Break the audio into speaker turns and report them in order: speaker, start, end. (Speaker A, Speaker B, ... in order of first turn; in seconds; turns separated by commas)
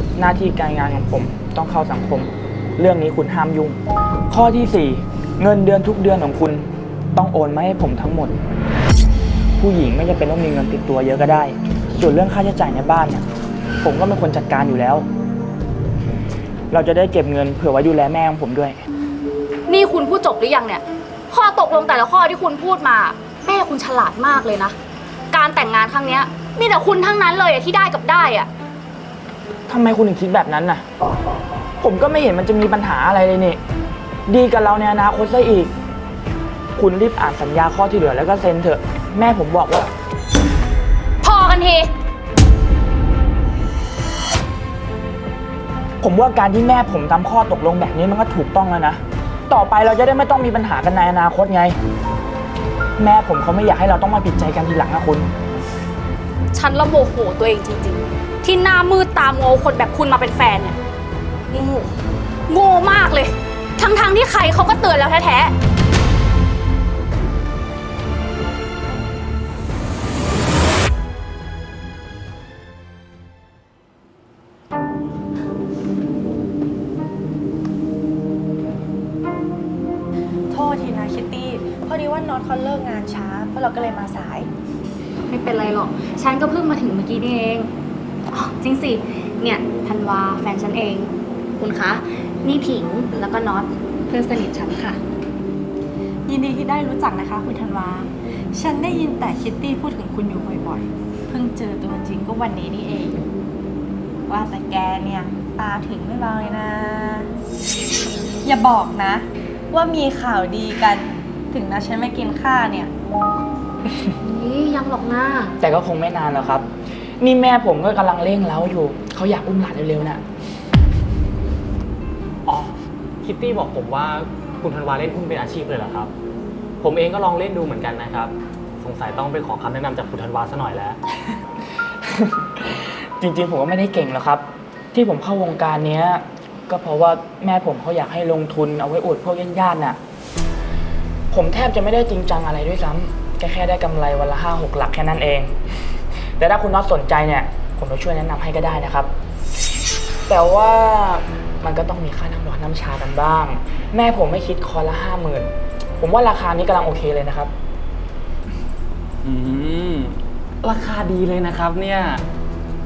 Speaker A: 0.2-3.8, Speaker A: 4.3-8.3, Speaker A: 9.6-13.2, Speaker A: 13.8-15.1, Speaker A: 16.7-18.8, Speaker B: 19.7-24.8, Speaker B: 25.3-28.5, Speaker A: 29.7-30.8, Speaker A: 31.8-33.6, Speaker A: 34.3-35.7, Speaker A: 36.8-39.9, Speaker B: 41.2-41.9, Speaker A: 46.0-51.8, Speaker A: 53.0-55.3, Speaker B: 56.5-60.8, Speaker B: 61.5-61.9, Speaker B: 62.5-65.5, Speaker C: 80.5-84.5, Speaker B: 85.3-87.7, Speaker B: 88.3-95.0, Speaker C: 96.3-103.2, Speaker C: 104.3-107.3, Speaker C: 108.5-112.9, Speaker B: 114.2-115.5, Speaker A: 115.6-116.7, Speaker A: 117.2-120.2, Speaker D: 122.5-126.1, Speaker D: 126.8-131.0, Speaker A: 132.0-140.0, Speaker A: 141.3-145.6, Speaker A: 146.4-149.1, Speaker A: 150.3-157.5, Speaker D: 159.2-162.2